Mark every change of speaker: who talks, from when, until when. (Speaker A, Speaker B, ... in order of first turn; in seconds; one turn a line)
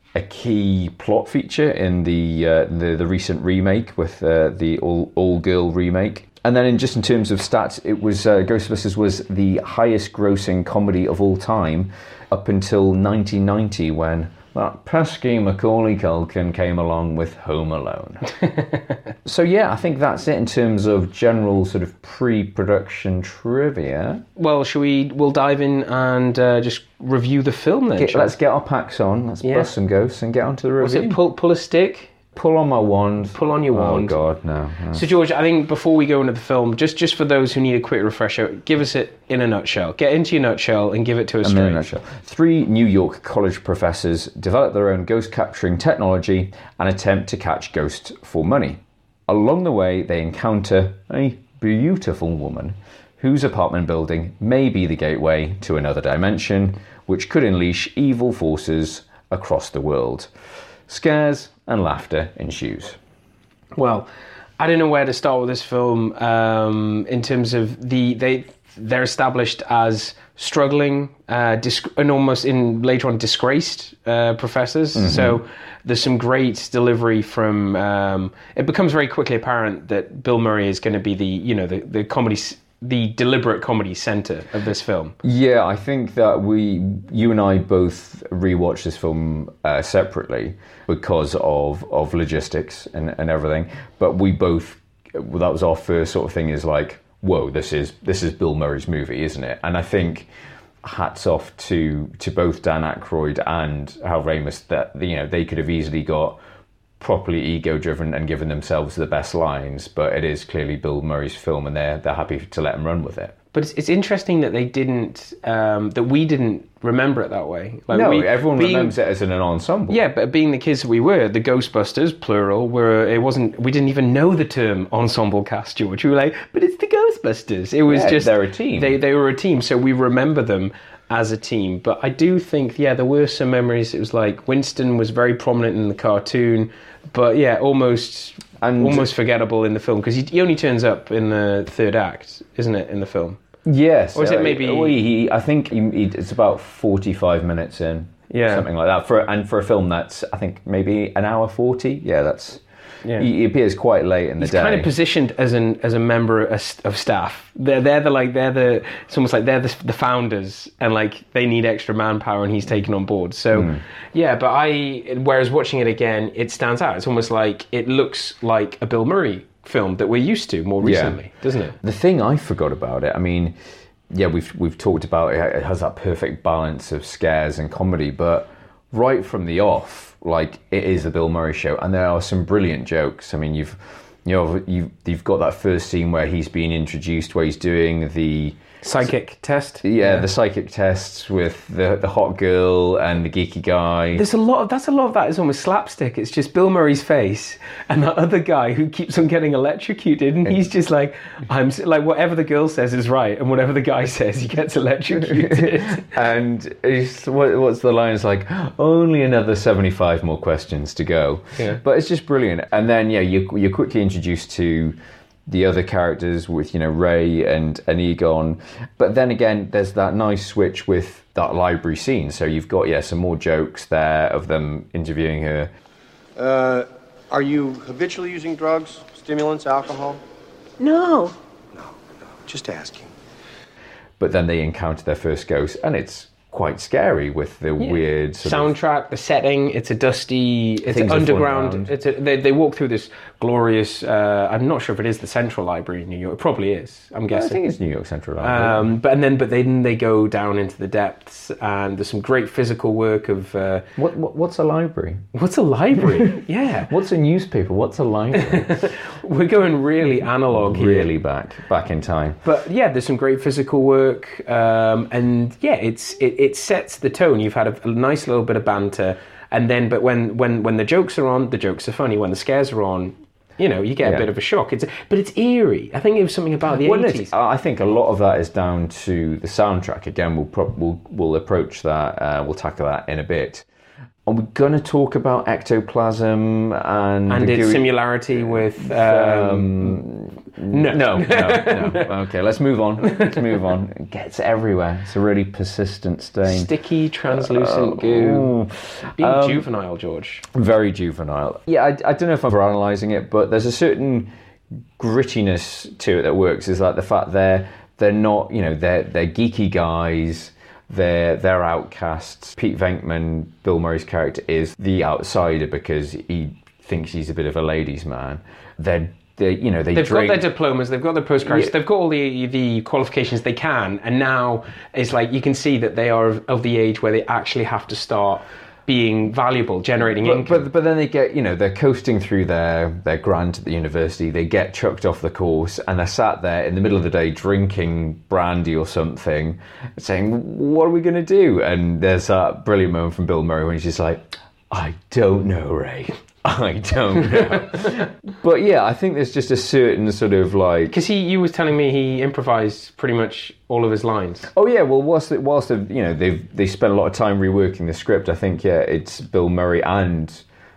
Speaker A: 0.1-18.3
Speaker A: 19.2-24.2
Speaker B: 24.4-28.4
Speaker A: 28.0-31.2
Speaker B: 29.4-29.7
Speaker B: 30.8-32.2
Speaker A: 32.3-35.1
Speaker B: 33.3-34.2
Speaker B: 34.9-41.9
Speaker A: 41.4-60.3
Speaker A: 60.9-63.0
Speaker B: 63.8-85.2
Speaker A: 75.0-75.4
Speaker A: 85.2-100.3
Speaker A: 100.8-106.4
Speaker A: 107.0-113.3
Speaker B: 113.5-118.9
Speaker A: 117.9-120.0
Speaker B: 119.9-143.4
Speaker A: 127.9-129.0
Speaker A: 138.6-139.1
Speaker A: 143.7-152.6
Speaker B: 144.2-145.0
Speaker B: 148.3-148.7
Speaker B: 153.0-153.3
Speaker A: 153.2-154.9
Speaker B: 154.4-171.8
Speaker A: 163.5-163.8
Speaker A: 170.8-171.2
Speaker A: 171.8-173.6
Speaker A: 174.1-189.1
Speaker B: 188.8-190.2
Speaker A: 189.8-194.2
Speaker B: 194.1-206.1
Speaker A: 205.2-215.0
Speaker A: 215.5-225.7
Speaker C: 226.4-230.2
Speaker B: 230.8-231.3
Speaker C: 231.8-233.1
Speaker A: 234.2-238.7
Speaker B: 237.8-247.6
Speaker A: 240.9-241.9
Speaker A: 247.3-248.8
Speaker B: 248.4-253.9
Speaker A: 254.0-255.3
Speaker B: 255.3-256.9
Speaker A: 256.9-258.9
Speaker B: 258.4-261.1
Speaker A: 260.5-262.4
Speaker B: 262.4-277.3
Speaker A: 276.8-283.6
Speaker A: 284.3-296.7
Speaker B: 287.3-290.0
Speaker B: 290.7-292.1
Speaker B: 296.4-298.5
Speaker A: 297.3-299.7
Speaker B: 299.2-300.5
Speaker A: 300.5-304.3
Speaker A: 305.0-320.5
Speaker B: 319.9-330.7
Speaker A: 321.4-321.8
Speaker A: 330.2-351.0
Speaker B: 350.9-354.5
Speaker A: 354.5-360.4